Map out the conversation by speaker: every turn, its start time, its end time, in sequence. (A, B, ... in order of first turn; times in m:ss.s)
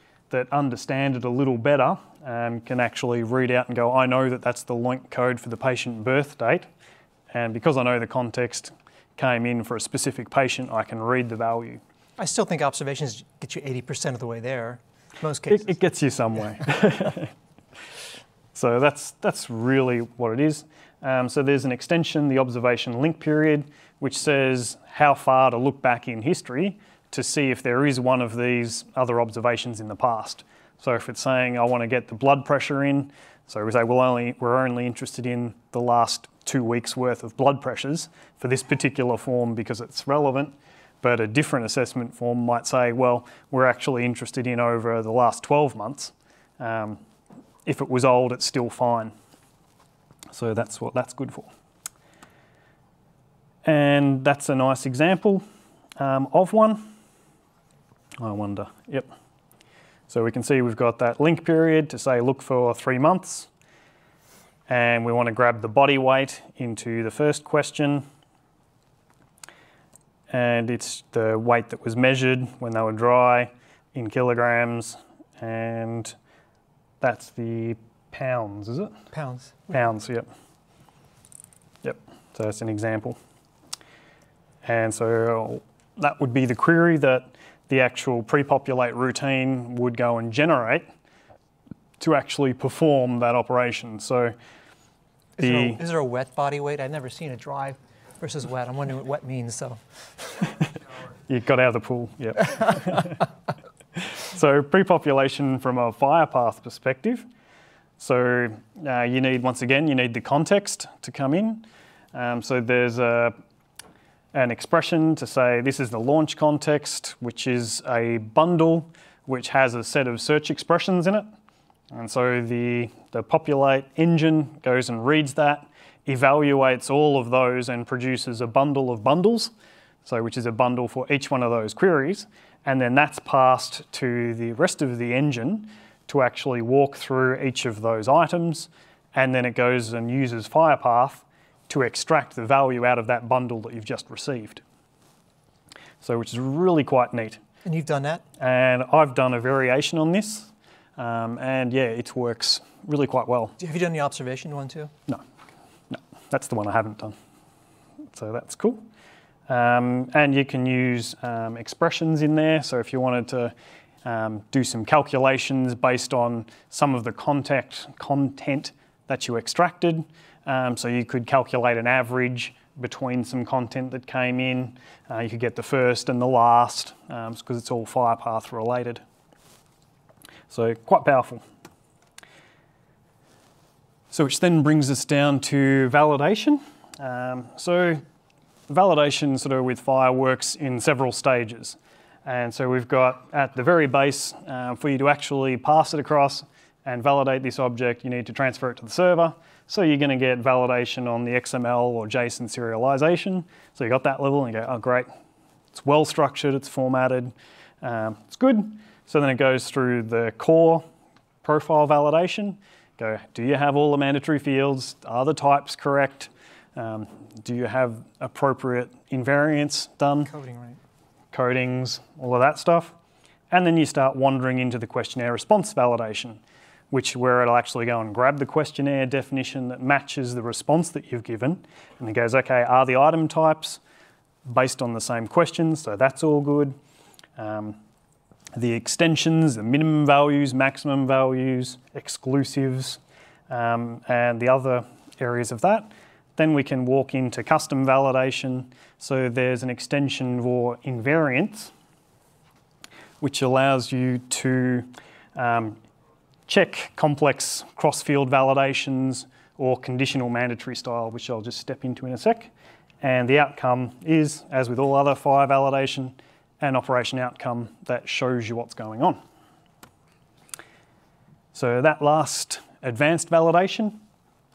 0:00.3-0:06.7 A
0:07.3-0:11.8 A
0:12.2-0:15.8 B
0:15.5-0:17.3 A
0:18.5-0:47.0 A
0:47.7-0:49.1 A
0:50.3-0:51.5 A
0:53.6-0:55.4 A
0:56.0-0:56.9 A
0:58.2-0:59.1 A
1:00.1-1:03.5 A
1:04.7-1:08.0 A
1:10.3-1:16.1 A
1:17.0-1:19.0 A
1:19.1-1:19.7 B
1:19.7-1:20.3 A
1:21.8-1:23.2 A
1:24.6-1:30.9 A
1:32.0-1:34.4 A
1:35.4-1:40.5 B
1:35.4-1:35.8 A
1:41.3-1:43.2 A
1:44.0-1:47.3 A
1:48.0-1:53.4 A
1:54.3-2:01.3 A
2:01.9-2:09.5 A
2:10.0-2:24.6 A
2:26.0-2:27.4 A
2:27.6-2:28.2 B
2:28.4-2:33.6 A
2:33.6-2:34.9 B
2:35.9-2:37.2 A
2:38.1-2:38.8 A
2:39.5-2:59.0 A
3:00.5-3:01.4 A
3:04.1-3:08.0 A
3:08.7-3:25.1 A
3:25.7-3:30.9 A
3:31.4-3:40.3 A
3:40.3-3:40.8 B
3:41.3-3:43.0 A
3:43.5-3:46.4 A
3:46.9-3:53.8 A
3:54.4-3:56.8 A
3:57.4-3:57.8 A
3:58.5-4:11.7 A
4:13.2-4:15.8 A
4:16.5-4:29.2 A
4:31.5-4:34.0 A